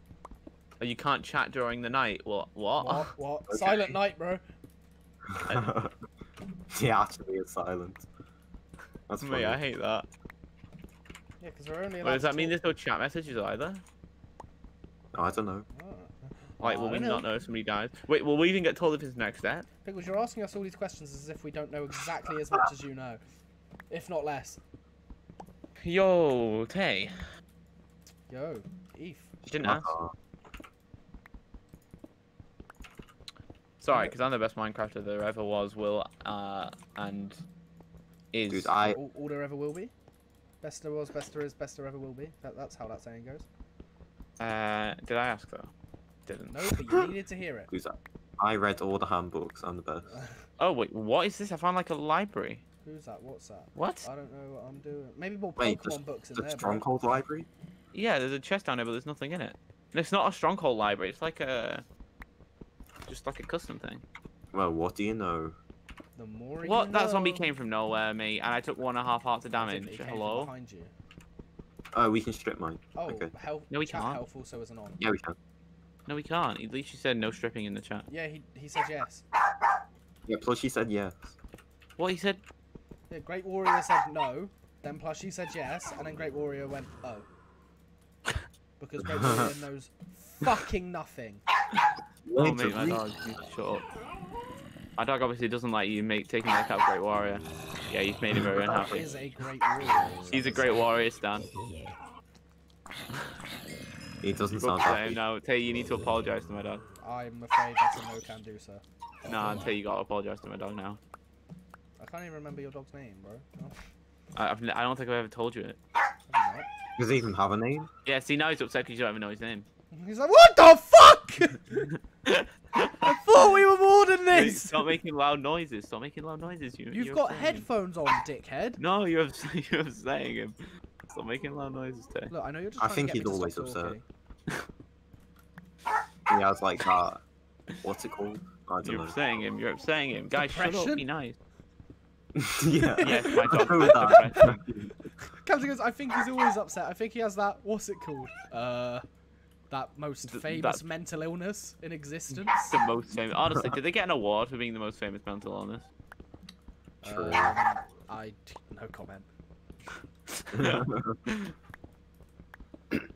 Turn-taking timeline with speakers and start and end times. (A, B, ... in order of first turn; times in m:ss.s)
0:00.8-0:03.1 A
0:02.8-0:04.4 B
0:03.5-0:03.9 C
0:05.4-0:05.9 C
0:06.7-0:08.0 C
0:09.1-0:09.6 C
0:09.2-0:10.1 A
0:11.4-0:12.6 B
0:12.0-0:13.8 A
0:15.1-0:15.7 C
0:15.7-0:17.3 B
0:16.6-0:19.6 A
0:19.8-0:23.2 B
0:23.9-0:24.6 B
0:25.8-0:27.2 A
0:28.3-0:29.3 B
0:29.4-0:29.9 A
0:29.6-0:30.1 C
0:33.8-0:37.4 A
0:38.3-0:38.7 A
0:38.5-0:39.0 C
0:38.8-0:39.9 B
0:40.6-0:43.4 B
0:44.4-0:45.7 A
0:46.3-0:46.7 A
0:46.5-0:47.7 B
0:47.7-0:50.1 C
0:50.1-0:50.3 B
0:50.6-0:52.6 A
0:52.8-0:56.8 B
0:53.8-0:54.1 A
0:55.6-0:57.5 C
0:57.9-1:01.8 A
1:03.1-1:04.0 A
1:04.5-1:05.5 C
1:06.2-1:07.4 B
1:06.6-1:10.5 A
1:09.5-1:10.9 B
1:11.9-1:13.3 C
1:12.9-1:15.0 B
1:13.7-1:14.2 A
1:15.0-1:15.4 C
1:16.1-1:18.1 A
1:18.1-1:19.2 B
1:20.3-1:21.3 C
1:22.0-1:22.4 A
1:23.1-1:27.3 B
1:28.8-1:31.4 B
1:29.0-1:29.5 C
1:32.2-1:33.0 C
1:32.4-1:33.8 A
1:35.0-1:39.1 A
1:38.5-1:40.8 B
1:40.3-1:41.5 A
1:44.2-1:45.2 C
1:44.6-1:46.8 A
1:47.0-1:48.8 B
1:49.2-1:51.0 A
1:52.0-1:53.8 B
1:54.3-1:55.8 A
1:56.3-1:56.7 B
1:57.0-1:57.9 C
1:58.0-1:59.6 A
1:59.9-2:01.9 B
2:01.8-2:03.0 A
2:03.0-2:04.9 B
2:04.3-2:07.6 A
2:06.9-2:08.8 B
2:08.8-2:10.6 A
2:11.1-2:12.3 A
2:12.3-2:14.0 B
2:12.8-2:14.0 C
2:16.3-2:17.2 C
2:17.8-2:19.2 C
2:18.8-2:21.4 A
2:20.4-2:21.0 B
2:22.4-2:24.9 C
2:22.8-2:24.6 B
2:23.0-2:24.4 A
2:25.4-2:29.0 B
2:29.7-2:32.8 B
2:30.2-2:30.8 A
2:32.3-2:35.8 A
2:37.0-2:39.3 B
2:37.0-2:37.6 C
2:40.4-2:41.5 A
2:40.5-2:41.2 C